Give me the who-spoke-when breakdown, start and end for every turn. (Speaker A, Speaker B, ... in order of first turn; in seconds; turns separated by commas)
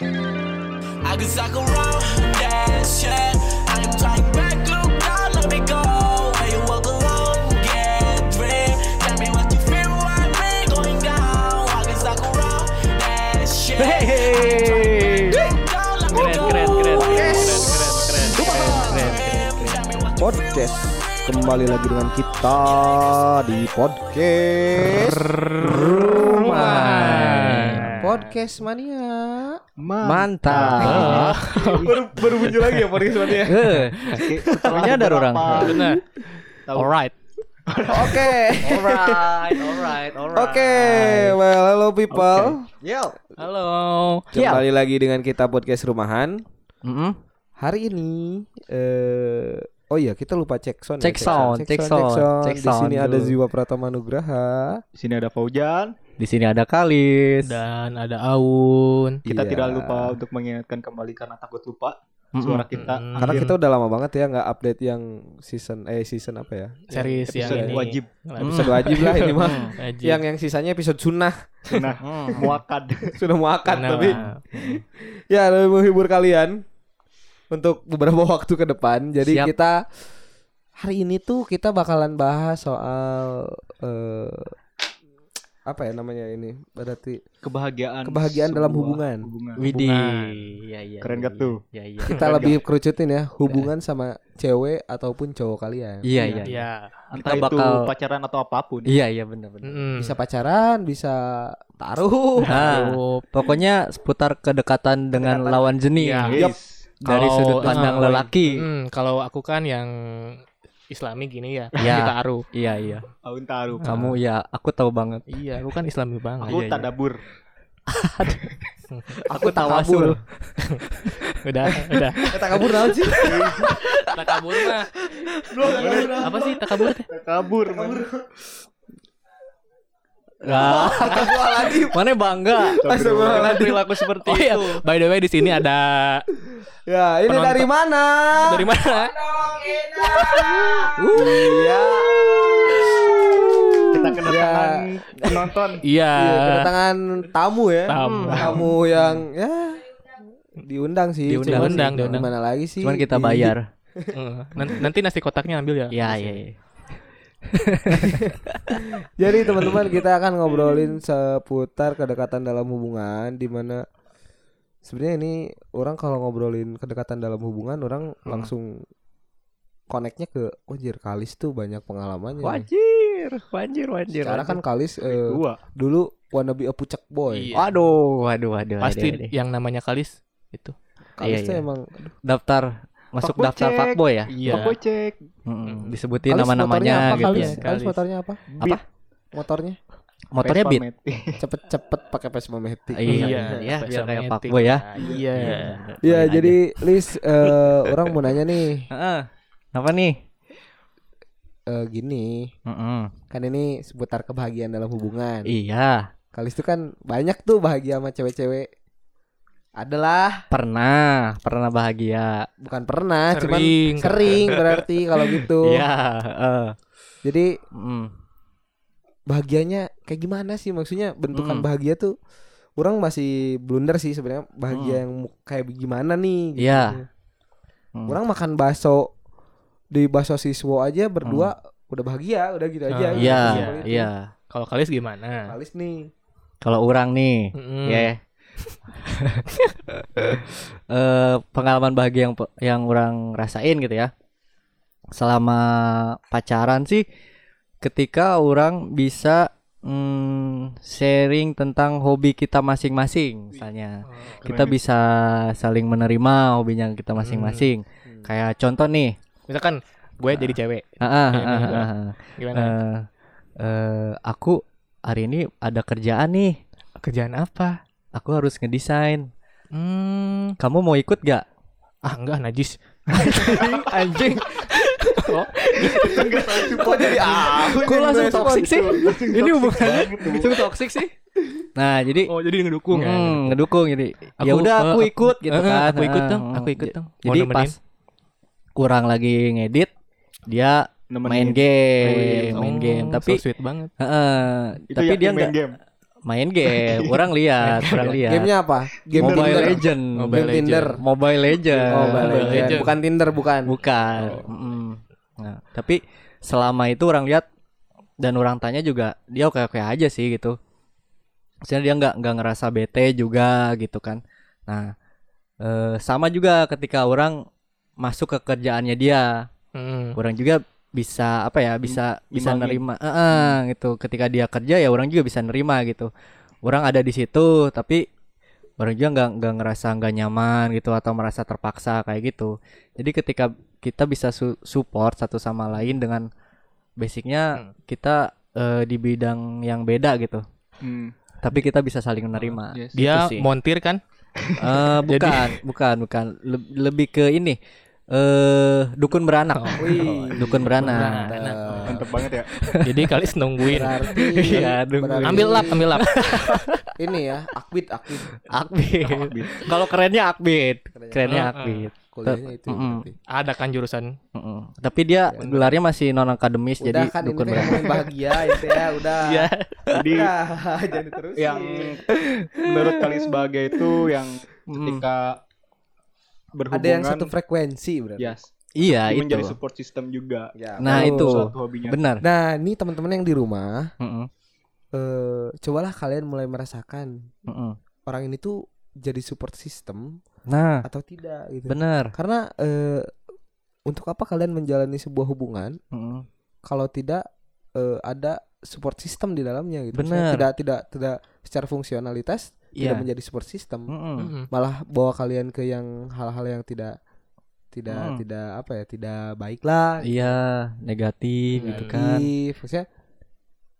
Speaker A: 1.0-25.0, Speaker B: 13.8-15.4, Speaker B: 16.1-19.8, Speaker C: 16.9-17.7, Speaker D: 17.1-19.2, Speaker C: 18.4-19.1, Speaker C: 20.2-27.1, Speaker D: 24.9-28.3, Speaker B: 25.6-28.0, Speaker C: 28.0-29.6, Speaker E: 29.8-32.0, Speaker B: 30.0-31.3, Speaker D: 30.7-32.9, Speaker C: 30.9-33.7, Speaker B: 33.4-34.1, Speaker D: 33.7-34.2, Speaker E: 34.1-35.8, Speaker C: 34.4-34.9, Speaker B: 34.6-35.8, Speaker D: 35.5-36.0, Speaker E: 36.6-36.9, Speaker D: 36.7-37.1, Speaker E: 37.7-38.5, Speaker C: 37.9-42.7, Speaker B: 38.6-41.3, Speaker E: 42.1-42.6, Speaker B: 42.8-43.1, Speaker D: 43.4-44.3, Speaker C: 44.3-46.4, Speaker B: 44.3-44.6, Speaker B: 46.8-47.2, Speaker C: 47.6-54.8, Speaker B: 51.0-53.3, Speaker E: 55.0-56.0, Speaker B: 56.2-57.6, Speaker D: 57.4-59.2, Speaker E: 59.2-63.5, Speaker C: 59.2-60.1, Speaker B: 62.4-62.7, Speaker D: 62.7-63.6, Speaker C: 63.2-67.8, Speaker D: 66.9-70.2, Speaker E: 67.3-68.1, Speaker B: 68.4-69.7, Speaker C: 68.4-71.7, Speaker E: 71.7-73.2, Speaker B: 72.0-72.5, Speaker C: 73.1-76.6, Speaker D: 73.7-74.4, Speaker B: 74.1-74.8, Speaker C: 77.5-79.8, Speaker B: 79.2-79.5, Speaker C: 80.8-84.5, Speaker C: 85.7-87.2, Speaker E: 87.4-89.7, Speaker C: 88.0-89.3, Speaker B: 89.6-92.2, Speaker D: 89.6-90.5, Speaker E: 91.0-91.6, Speaker C: 92.1-96.4, Speaker E: 92.1-92.6, Speaker B: 96.0-97.8, Speaker D: 96.5-96.9, Speaker E: 97.1-98.9, Speaker B: 98.8-99.8, Speaker D: 99.7-100.2, Speaker C: 100.0-102.6, Speaker D: 102.4-103.2, Speaker B: 102.5-106.3, Speaker C: 105.1-105.8, Speaker D: 106.0-106.4, Speaker E: 106.3-106.7, Speaker B: 107.0-108.7, Speaker D: 107.1-110.4, Speaker C: 107.6-108.3, Speaker D: 110.9-112.4, Speaker B: 111.8-113.1, Speaker E: 113.2-114.1, Speaker B: 113.8-115.2, Speaker D: 115.3-116.6, Speaker B: 116.4-116.9, Speaker E: 116.4-117.2, Speaker B: 117.9-118.5, Speaker B: 119.2-120.2, Speaker C: 119.3-120.2, Speaker D: 121.4-122.4, Speaker B: 121.9-124.7, Speaker C: 122.3-123.7, Speaker E: 123.2-123.7, Speaker D: 124.0-124.9, Speaker C: 125.5-126.6, Speaker B: 125.6-126.0, Speaker E: 125.7-126.2, Speaker D: 126.0-127.1, Speaker E: 127.1-128.1, Speaker C: 127.6-128.2, Speaker B: 130.4-134.8, Speaker C: 130.5-132.0, Speaker D: 130.7-131.3, Speaker E: 132.8-133.6, Speaker C: 132.8-133.8, Speaker D: 134.2-136.3, Speaker C: 136.9-145.6, Speaker D: 137.3-137.7, Speaker D: 138.4-139.1, Speaker B: 140.9-141.9, Speaker B: 142.7-143.9, Speaker E: 143.9-145.8, Speaker D: 145.8-146.7, Speaker C: 146.1-154.8, Speaker D: 147.9-148.7, Speaker B: 147.9-148.5, Speaker B: 151.3-152.3, Speaker D: 151.5-152.3, Speaker B: 152.8-153.7, Speaker D: 154.1-156.4, Speaker B: 155.9-156.6, Speaker B: 157.5-158.8, Speaker C: 157.9-158.3, Speaker C: 159.0-163.8, Speaker B: 159.5-159.9, Speaker C: 164.8-168.8, Speaker C: 169.9-172.7, Speaker B: 172.4-174.6, Speaker C: 174.2-177.5, Speaker E: 175.0-175.6, Speaker D: 177.3-177.8, Speaker B: 177.5-179.3, Speaker D: 178.8-180.7, Speaker C: 181.2-182.1, Speaker B: 181.2-181.6, Speaker B: 182.2-184.7, Speaker E: 183.2-185.2, Speaker D: 184.3-184.8, Speaker B: 185.4-187.6, Speaker D: 185.7-186.0, Speaker C: 186.3-188.8, Speaker D: 186.8-188.0, Speaker C: 189.3-189.8, Speaker B: 190.3-190.8, Speaker E: 190.4-191.4, Speaker C: 191.4-193.7, Speaker B: 192.9-196.6, Speaker D: 193.1-195.8, Speaker E: 195.0-195.5, Speaker C: 196.0-198.9, Speaker B: 198.9-200.2, Speaker C: 201.7-202.5, Speaker B: 202.7-203.1, Speaker C: 203.3-205.5, Speaker B: 205.4-206.1, Speaker C: 206.3-208.7, Speaker C: 209.8-210.5, Speaker B: 210.5-212.5, Speaker C: 212.6-215.8, Speaker D: 213.3-214.4, Speaker B: 215.2-216.8, Speaker C: 217.2-217.6, Speaker B: 217.7-218.1, Speaker C: 219.3-222.1, Speaker B: 221.3-221.7, Speaker C: 222.8-227.1, Speaker B: 224.7-225.0, Speaker B: 226.6-227.0, Speaker C: 228.1-229.1, Speaker C: 229.9-234.0, Speaker B: 231.2-231.5, Speaker D: 232.9-235.5, Speaker B: 233.2-234.3, Speaker C: 235.5-236.1, Speaker B: 236.6-238.2, Speaker D: 237.6-238.1, Speaker D: 238.7-239.9, Speaker B: 240.2-244.1, Speaker B: 245.1-247.1, Speaker B: 247.8-259.1, Speaker D: 254.1-254.4, Speaker E: 254.4-254.8, Speaker D: 257.2-257.7, Speaker D: 259.5-262.7, Speaker B: 260.3-263.0, Speaker B: 263.6-266.6, Speaker D: 267.0-267.8, Speaker B: 268.1-269.3, Speaker D: 269.7-270.6, Speaker B: 270.6-271.4, Speaker D: 272.0-274.0, Speaker B: 273.1-275.3, Speaker D: 274.9-276.3, Speaker B: 275.8-276.2, Speaker E: 275.9-280.6, Speaker C: 276.5-279.2, Speaker B: 277.6-281.1, Speaker B: 281.8-282.3, Speaker E: 282.3-283.5, Speaker B: 282.9-287.7, Speaker D: 284.4-287.7, Speaker B: 288.8-289.9, Speaker B: 290.5-293.4, Speaker E: 291.1-292.7, Speaker D: 292.1-293.9, Speaker B: 294.0-295.5, Speaker E: 294.9-295.8, Speaker B: 296.2-298.5, Speaker E: 296.6-297.3, Speaker D: 297.6-298.2, Speaker C: 298.2-299.8, Speaker E: 299.1-299.9, Speaker B: 299.1-302.9, Speaker D: 300.1-300.9, Speaker C: 300.3-301.0, Speaker C: 301.9-303.7, Speaker D: 302.0-302.9, Speaker B: 303.6-307.5, Speaker E: 304.2-304.4, Speaker B: 308.2-310.6, Speaker B: 311.6-314.9, Speaker B: 315.6-317.4, Speaker B: 318.0-319.4, Speaker D: 319.7-320.1, Speaker B: 320.1-326.1, Speaker E: 321.8-322.8, Speaker B: 326.6-328.1, Speaker B: 328.8-336.3, Speaker B: 337.0-340.4, Speaker E: 340.8-341.1, Speaker B: 341.4-343.5, Speaker D: 342.4-344.0, Speaker B: 344.6-347.6, Speaker D: 345.1-345.6, Speaker B: 348.1-351.3, Speaker D: 349.5-352.1, Speaker C: 349.8-352.1, Speaker E: 351.8-352.5, Speaker B: 352.6-353.1, Speaker D: 352.7-354.6, Speaker C: 353.6-355.9, Speaker B: 353.9-356.9, Speaker D: 355.2-356.6, Speaker C: 357.0-358.3, Speaker B: 358.3-363.0, Speaker E: 359.0-359.7, Speaker C: 360.9-361.5, Speaker D: 361.3-361.9, Speaker C: 362.1-363.1, Speaker D: 363.3-364.1, Speaker B: 364.3-367.9, Speaker C: 366.8-372.0, Speaker D: 369.2-369.8, Speaker E: 369.9-370.3, Speaker E: 371.4-372.0, Speaker B: 372.1-373.2, Speaker E: 372.6-375.4, Speaker B: 374.7-375.0, Speaker E: 376.5-377.3, Speaker C: 376.7-378.4, Speaker E: 378.2-382.0, Speaker B: 378.7-379.6, Speaker C: 380.6-381.4, Speaker B: 380.8-382.2, Speaker C: 382.2-383.9, Speaker B: 384.0-384.3, Speaker C: 384.9-387.3, Speaker B: 387.5-387.8, Speaker C: 388.1-390.2, Speaker B: 390.5-390.8, Speaker C: 390.8-393.1, Speaker B: 391.7-392.1, Speaker C: 393.9-395.8, Speaker B: 395.9-396.2, Speaker C: 396.6-397.2, Speaker C: 397.8-403.9, Speaker B: 399.9-400.4, Speaker B: 402.8-403.1, Speaker B: 403.9-404.3, Speaker D: 404.2-404.5, Speaker C: 404.5-406.9, Speaker C: 407.7-410.3, Speaker B: 407.9-408.2, Speaker B: 410.0-412.3, Speaker D: 411.5-411.9, Speaker C: 411.6-412.9